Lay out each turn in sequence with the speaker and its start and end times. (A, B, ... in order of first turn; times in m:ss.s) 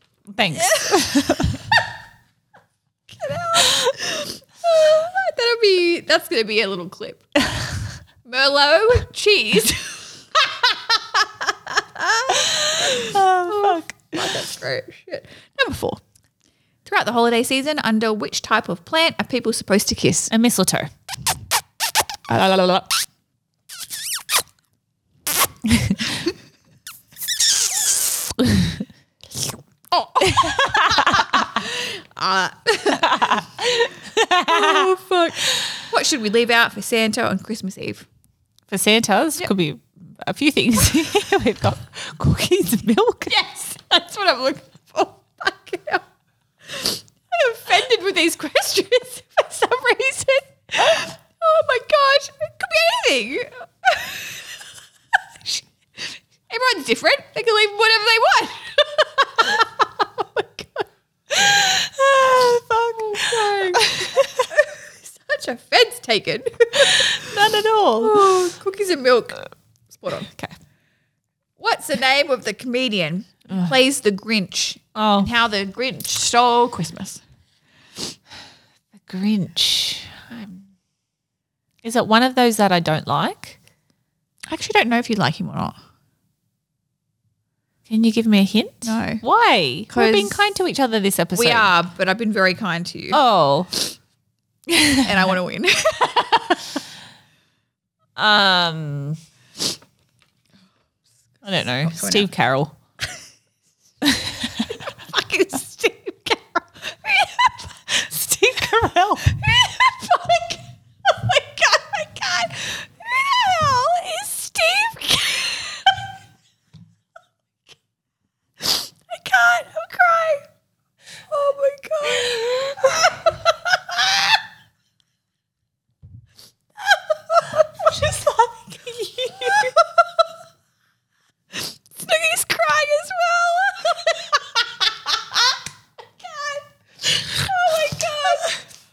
0:00.3-0:01.6 A
0:00.6-0:01.6 B
0:03.2-0:07.3 B
0:03.6-0:03.9 A
0:08.2-0:16.0 B
0:12.4-0:14.2 A
0:16.8-0:20.3 B
0:20.3-0:20.9 A
0:22.3-0:22.9 B
0:25.7-0:26.0 A
0:28.4-0:28.7 A
0:29.9-0:33.9 B
0:30.3-0:31.5 A
0:32.9-0:34.9 A
0:34.4-0:38.1 B
0:38.7-0:43.4 A
0:43.3-0:46.0 B
0:46.7-0:54.5 B
0:55.5-1:00.9 B
1:01.4-1:04.5 A
1:01.4-1:01.7 B
1:02.9-1:07.4 B
1:06.8-1:08.5 A
1:08.0-1:10.3 B
1:10.3-1:10.6 A
1:11.6-1:17.2 B
1:13.5-1:13.8 A
1:15.0-1:15.3 A
1:19.0-1:20.7 A
1:21.8-1:23.6 A
1:24.5-1:25.8 B
1:27.9-1:31.7 A
1:28.8-1:29.2 B
1:29.9-1:30.4 B
1:31.3-1:33.2 B
1:33.1-1:33.7 A
1:34.7-1:35.1 A
1:35.0-1:36.7 B
1:38.2-1:39.2 A
1:41.4-1:42.8 A
1:41.8-1:42.3 B
1:44.0-1:44.5 A
1:44.6-1:48.1 B
1:48.0-1:49.3 A
1:49.2-1:55.9 B
1:58.6-2:00.4 B
2:01.3-2:03.4 B
2:07.8-2:09.7 A
2:09.4-2:09.7 B
2:11.6-2:14.5 B
2:16.2-2:16.6 B
2:17.2-2:18.6 B